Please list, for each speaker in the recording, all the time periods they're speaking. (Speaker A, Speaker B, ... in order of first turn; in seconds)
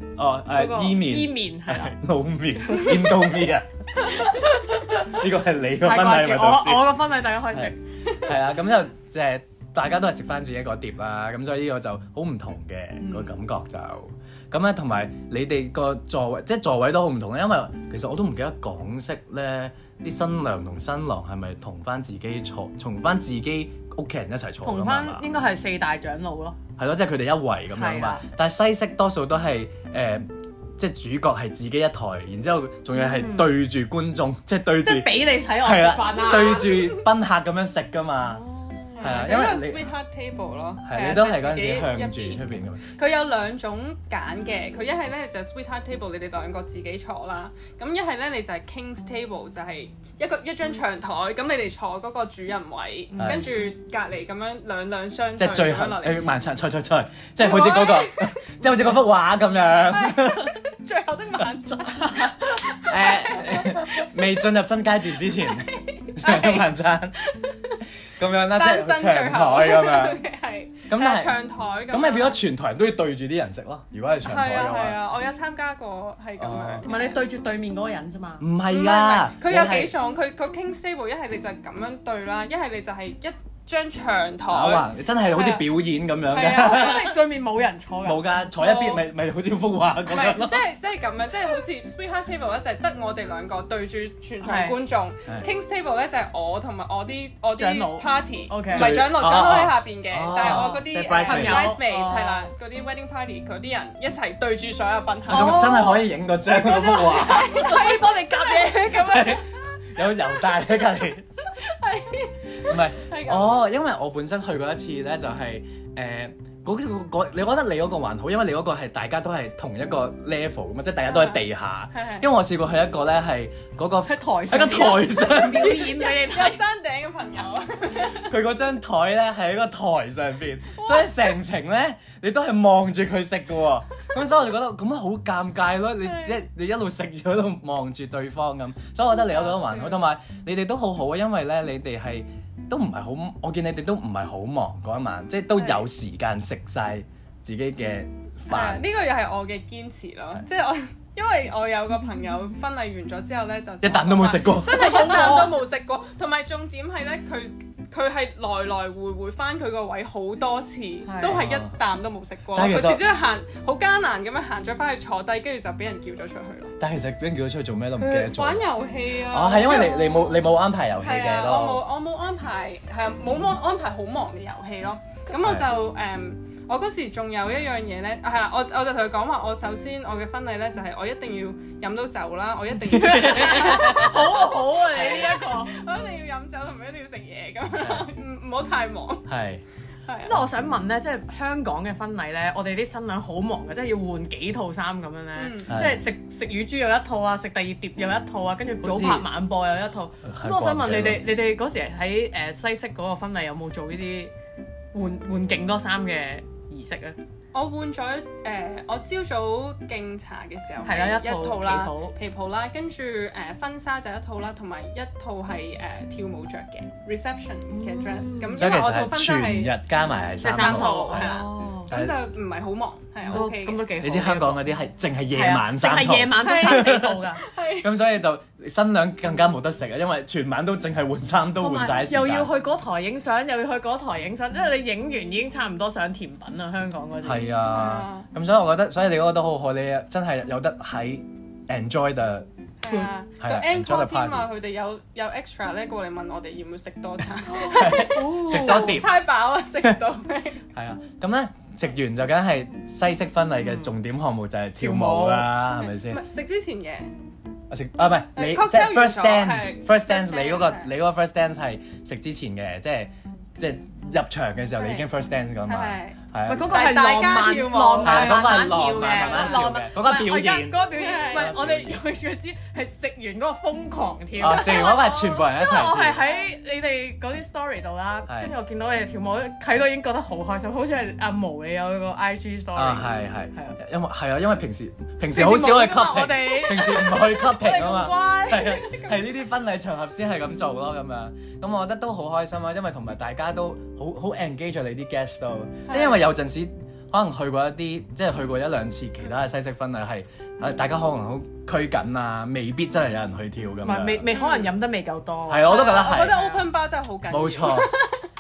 Speaker A: 0.2-25.3, 26.8-38.4, 39.0-39.9, 40.8-42.9, 53.2-53.5, 55.4-60.5, 61.4-67.2, 68.1-70.2, 70.9-75.0, 76.4-76.9, 78.4-79.9, 84.5-87.1, 88.0-90.6, 98.7-101.8, 105.3-107.7, 108.8-111.2, 112.6-125.9, 128.0-148.8, 153.8-155.6, 161.3-161.7, 162.5-163.0, 166.8-168.6, 169.3-171.8, 175.4-175.7, 182.9-184.2, 187.8-188.1, 189.3-189.6, 195.7-196.0, 198.8-199.3, 200.2-201.3, 218.6-221.4, 221.9-222.2, 224.0-232.5, 237.2-242.5, 243.4-244.5, 247.6-249.2, 250.8-256.2, 257.7-266.9, 268.0-272.0, 274.4-276.3, 278.3-278.5, 282.8-304.3, 305.5-306.4, 307.3-307.9
Speaker B: 0.5-1.9, 2.7-3.3, 4.0-5.2, 5.8-8.3, 13.0-13.4, 24.6-26.6, 27.7-28.2, 33.0-33.6, 34.8-36.8, 38.2-39.3, 76.8-78.5, 86.5-88.5, 94.4-94.8, 97.6-99.1, 100.3-102.5, 105.3-106.0, 106.6-109.4, 124.0-126.6, 154.8-155.4, 161.1-161.4, 182.9-185.7, 190.2-204.3, 204.9-207.2, 210.8-212.1, 217.7-218.6, 220.4-221.9, 223.3-224.6, 225.3-227.4, 231.6-237.5, 247.7-249.0, 253.6-253.9, 254.8-255.5, 266.5-283.8, 285.3-289.0, 303.8-306.6
Speaker C: 36.6-37.0, 39.0-56.3, 57.4-58.4, 59.9-64.2, 65.3-66.7, 67.2-67.8, 68.5-72.4, 74.2-77.2, 78.7-85.6, 86.3-87.1, 88.6-89.0, 90.1-106.0, 106.6-109.3, 111.5-113.6, 121.1-122.3, 125.2-128.3, 130.7-131.2, 139.3-140.0, 148.5-166.8, 168.0-170.3, 171.0-189.3, 190.1-190.4, 195.3-195.8, 207.5-223.9, 226.4-227.9, 237.7-238.3, 242.8-250.7, 255.8-257.1, 258.4-260.9, 265.7-269.7, 270.9-271.5, 295.9-296.2, 304.3-304.7, 305.6-308.1